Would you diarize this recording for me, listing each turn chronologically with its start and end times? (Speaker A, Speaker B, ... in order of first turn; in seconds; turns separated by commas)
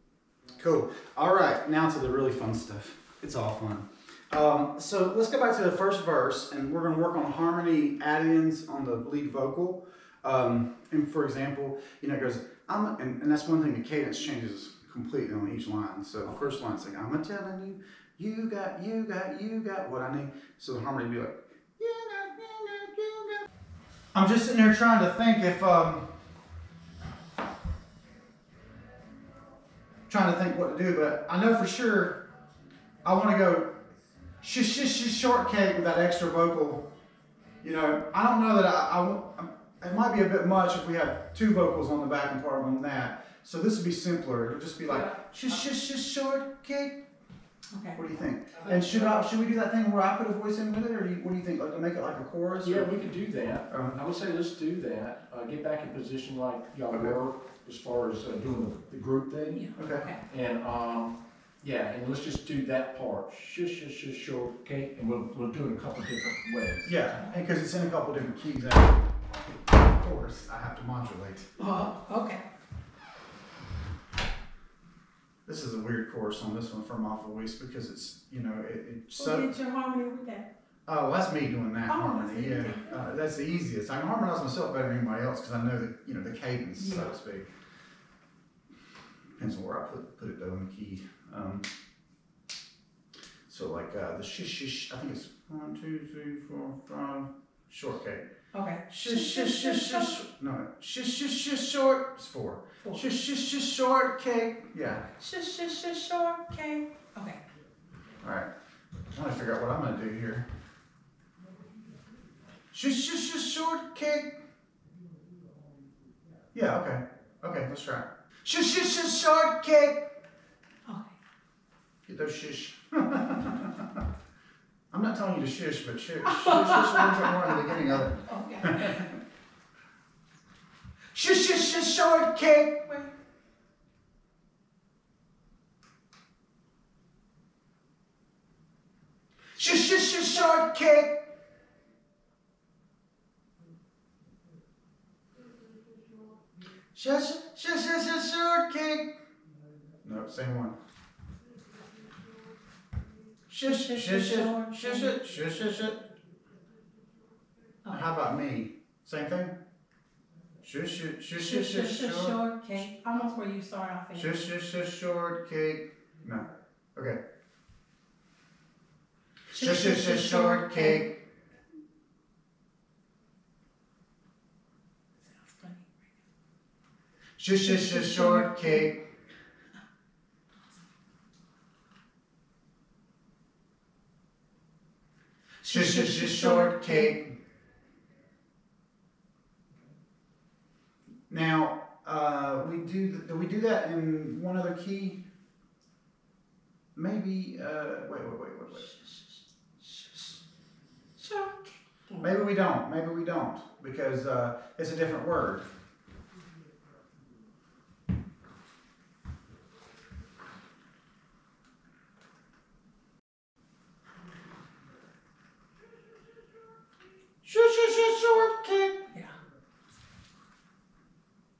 Speaker A: 0.6-23.4, Speaker A: 24.1-26.1, Speaker A: 30.1-32.2, Speaker A: 33.0-33.8, Speaker A: 34.4-36.9, Speaker A: 37.6-47.0, Speaker B: 47.7-48.0, Speaker A: 47.9-53.0, Speaker C: 52.6-66.9, Speaker A: 53.7-54.0, Speaker A: 56.9-57.1, Speaker B: 59.5-60.2, Speaker A: 59.8-60.1, Speaker A: 66.8-69.1, Speaker A: 69.8-71.5, Speaker B: 71.6-72.4, Speaker A: 75.5-79.5, Speaker B: 79.1-80.5, Speaker A: 80.9-87.5, Speaker B: 81.9-83.0, Speaker A: 89.4-91.7, Speaker A: 93.5-98.3, Speaker B: 98.5-100.2, Speaker A: 98.9-105.0, Speaker B: 105.2-107.4, Speaker A: 108.2-108.5, Speaker A: 109.1-110.5, Speaker A: 112.7-114.4, Speaker A: 116.5-120.1, Speaker B: 120.8-121.1, Speaker A: 122.1-124.0, Speaker A: 124.9-129.2, Speaker B: 126.2-129.1, Speaker A: 131.1-132.9, Speaker A: 139.5-141.3, Speaker A: 146.9-149.2, Speaker A: 150.0-150.7, Speaker A: 153.5-156.1, Speaker B: 153.6-155.2, Speaker A: 157.9-159.5, Speaker A: 160.6-162.4, Speaker B: 161.3-164.4, Speaker A: 164.1-167.2, Speaker A: 169.5-171.2, Speaker B: 169.5-171.1, Speaker B: 175.3-175.9, Speaker A: 177.4-179.1, Speaker B: 177.7-178.8, Speaker B: 185.6-187.1, Speaker A: 185.7-187.3, Speaker A: 191.3-195.2, Speaker A: 196.9-198.9, Speaker B: 198.9-200.4, Speaker B: 201.2-202.3, Speaker A: 202.2-205.7, Speaker A: 217.4-219.0